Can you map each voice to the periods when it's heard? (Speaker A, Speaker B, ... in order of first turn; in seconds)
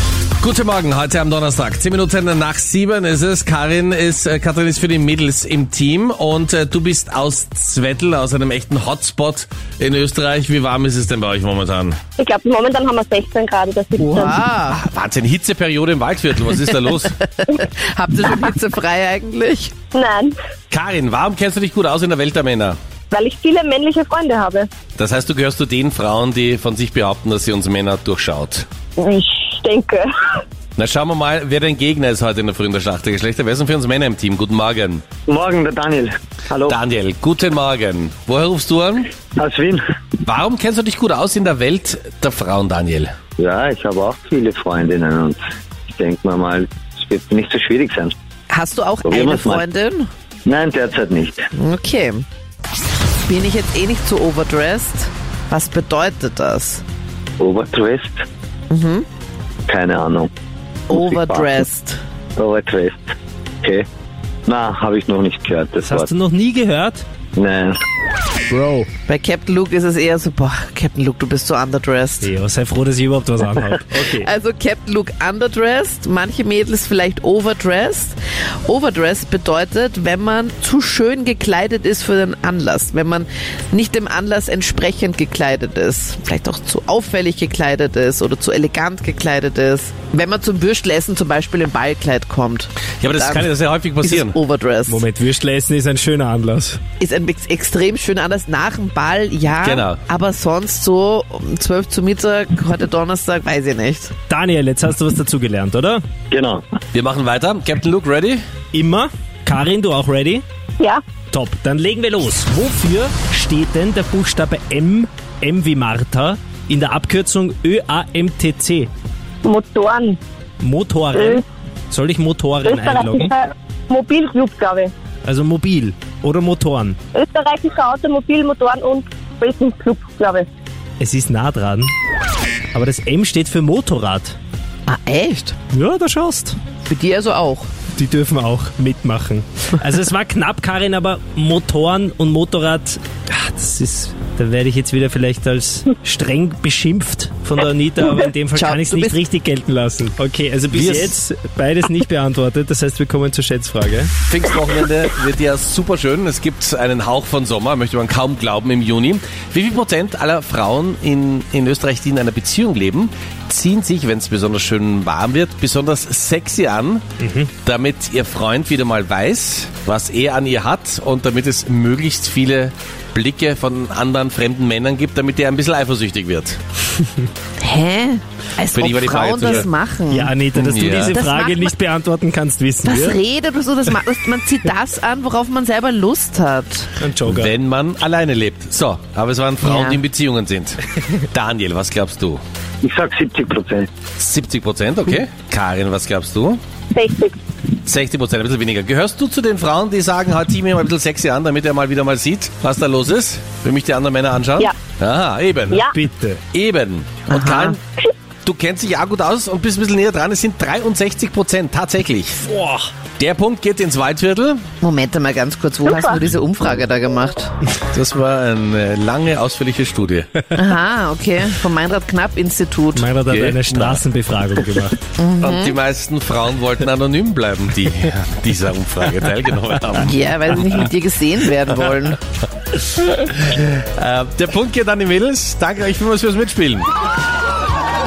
Speaker A: 0.4-12.0, 14.7-17.1, 20.7-22.8, 25.0-28.7, 30.8-35.0, 36.7-39.1, 40.2-43.1, 93.0-94.4, 99.6-100.0, 106.9-108.4, 150.7-151.2, 154.3-167.0, 167.6-176.6, 178.7-179.7, 180.5-181.2, 187.2-192.4, 194.2-196.6, 197.8-205.9, 206.5-207.8, 208.4-212.4, 213.2-214.6, 217.9-220.3, 223.2-224.0, 225.4-230.8, 233.0-236.9
Speaker B: 12.2-14.2, 19.9-20.3, 23.1-24.7, 29.0-30.1, 119.4-120.2, 122.7-124.9, 127.1-130.5, 196.9-197.4
Speaker C: 14.0-14.8, 16.9-19.7, 48.5-50.1, 51.5-52.2, 53.2-56.8, 58.7-59.0, 60.9-62.0, 69.1-72.3, 73.7-93.5, 94.0-95.0, 97.0-104.1, 134.9-135.6, 136.9-137.7, 148.5-149.2, 177.6-180.3, 181.1-181.7, 182.8-186.9, 189.6-190.0, 207.3-207.8, 214.8-217.5, 220.5-223.1, 225.2-225.8, 230.0-232.2
Speaker D: 35.3-36.8, 39.3-39.8, 43.4-48.1, 49.0-49.6, 50.5-51.5, 57.4-58.2, 59.7-60.3, 60.9-61.6, 62.4-63.1, 64.5-66.1, 67.3-67.8, 106.3-106.6, 192.8-193.9
Speaker E: 65.8-67.0, 68.5-68.9, 72.2-74.3, 94.9-96.8, 104.3-106.0, 108.7-110.4, 111.3-118.9, 120.6-123.3, 125.2-127.0, 131.0-131.9, 132.7-134.3, 135.7-136.6, 137.9-154.1, 167.2-167.5, 180.1-183.2, 187.0-187.5, 205.9-206.4, 212.5-212.9, 222.9-225.0